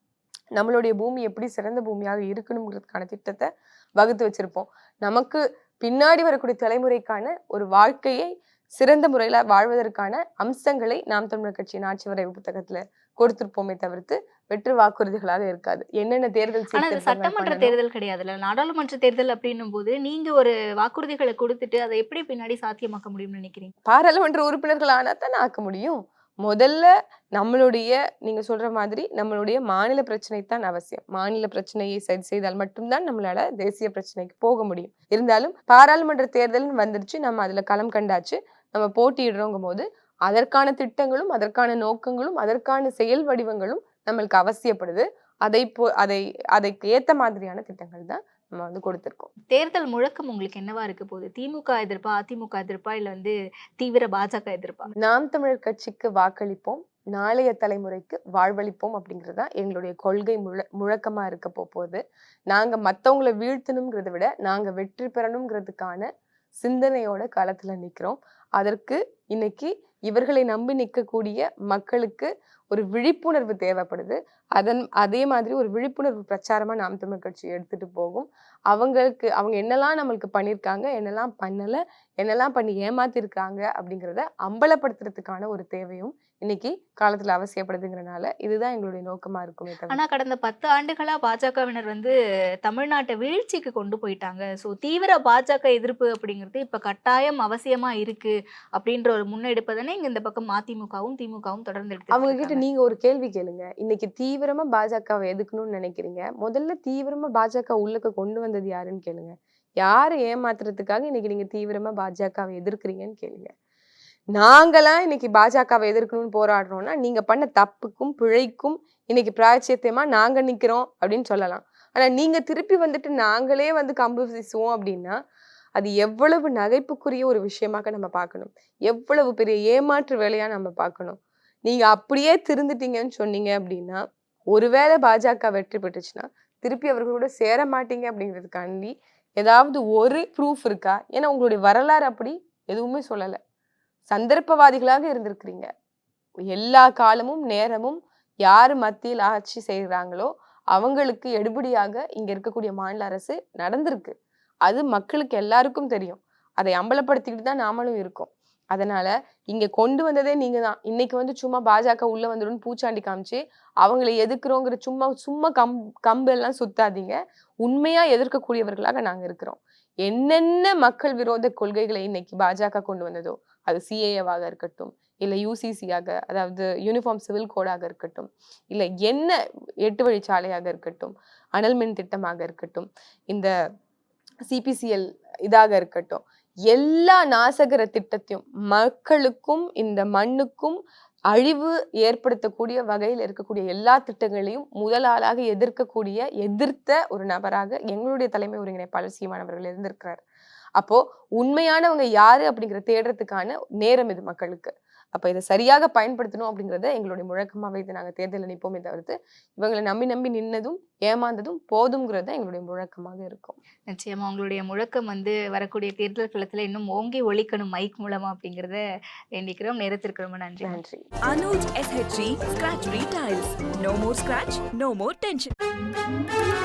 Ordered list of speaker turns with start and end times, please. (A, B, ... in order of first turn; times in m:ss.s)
0:00.6-0:17.8 A
0:16.7-0:23.7 B
0:23.8-0:49.3 A
0:49.5-0:54.9 B
0:55.0-1:30.0 A
1:29.9-1:32.1 B
1:32.6-1:42.6 B
1:42.1-1:53.5 A
1:54.3-2:05.2 A
2:05.8-2:23.4 A
2:24.1-2:25.7 A
2:26.5-2:34.1 A
2:34.6-3:03.5 A
3:04.4-3:10.8 A
3:11.3-3:20.2 A
3:20.8-3:33.6 A
3:33.9-3:38.8 B
3:39.4-3:40.8 B
3:40.6-3:41.0 A
3:41.3-3:45.5 C